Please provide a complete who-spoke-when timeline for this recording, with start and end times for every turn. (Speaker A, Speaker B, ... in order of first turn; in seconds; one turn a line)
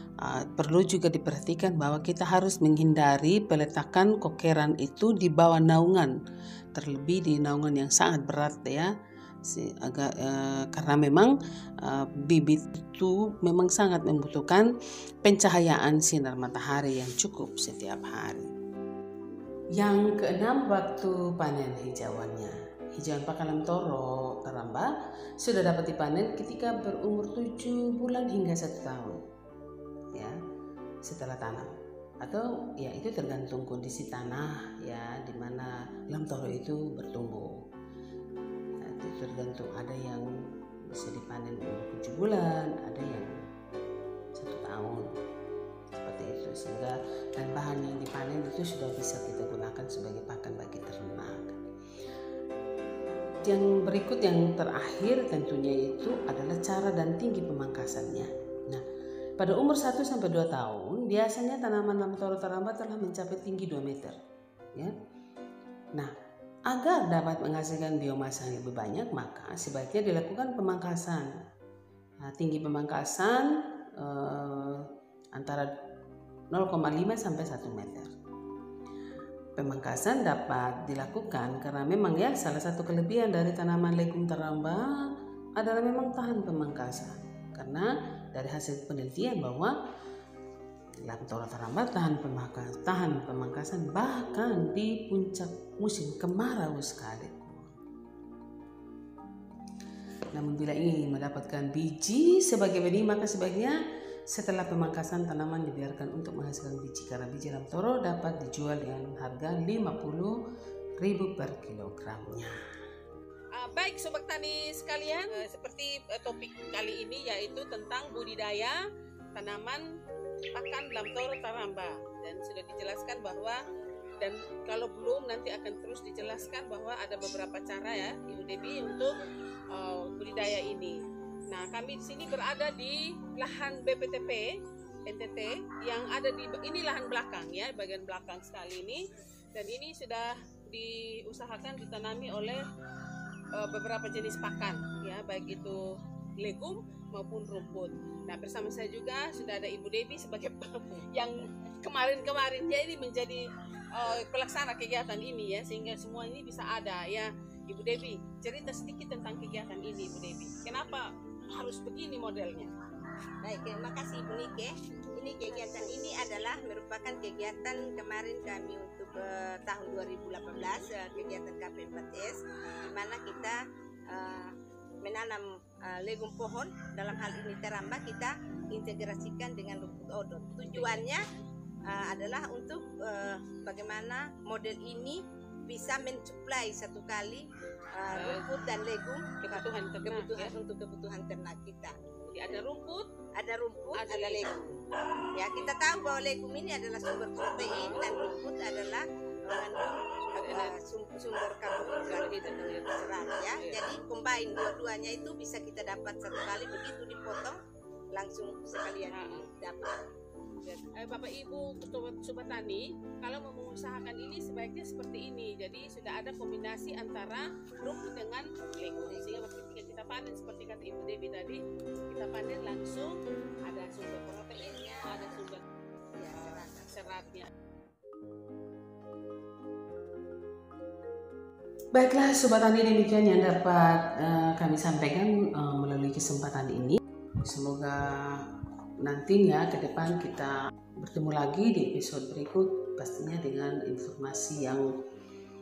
Speaker A: 0.2-6.1
Speaker A: 6.7-8.9
Speaker A: 9.4-14.7
Speaker A: 15.2-18.5
Speaker A: 19.8-29.2
Speaker A: 31.0-37.6
Speaker A: 38.8-40.3
Speaker A: 40.9-43.3
Speaker A: 44.3-45.1
Speaker A: 45.9-51.6
Speaker A: 53.4-58.8
Speaker A: 59.4-64.2
Speaker A: 66.7-71.3
Speaker A: 72.2-75.7
Speaker A: 76.5-78.1
Speaker A: 79.6-89.7
Speaker A: 91.0-97.8
Speaker A: 100.3-103.8
Speaker A: 104.3-110.3
Speaker A: 111.0-112.6
Speaker B: 113.5-118.8
Speaker B: 119.3-119.8
Speaker B: 120.5-123.6
Speaker B: 124.2-129.1
Speaker B: 129.7-131.0
Speaker B: 131.5-134.5
Speaker B: 135.1-139.0
Speaker B: 139.5-142.6
Speaker B: 143.6-145.8
Speaker B: 146.4-162.7
Speaker C: 163.4-181.2
Speaker B: 180.7-181.1
Speaker C: 181.9-191.9
Speaker B: 188.1-188.5
Speaker B: 189.4-190.5
Speaker B: 192.3-193.2
Speaker C: 193.3-194.7
Speaker B: 193.9-194.8
Speaker C: 195.3-207.6
Speaker B: 197.6-198.3
Speaker B: 200.2-200.8
Speaker B: 201.9-203.9
Speaker C: 208.1-210.0
Speaker B: 209.1-209.5
Speaker B: 210.6-223.1
Speaker B: 223.7-225.6
Speaker C: 224.5-225.4
Speaker C: 226.1-227.3
Speaker B: 226.9-227.5
Speaker A: 231.9-244.9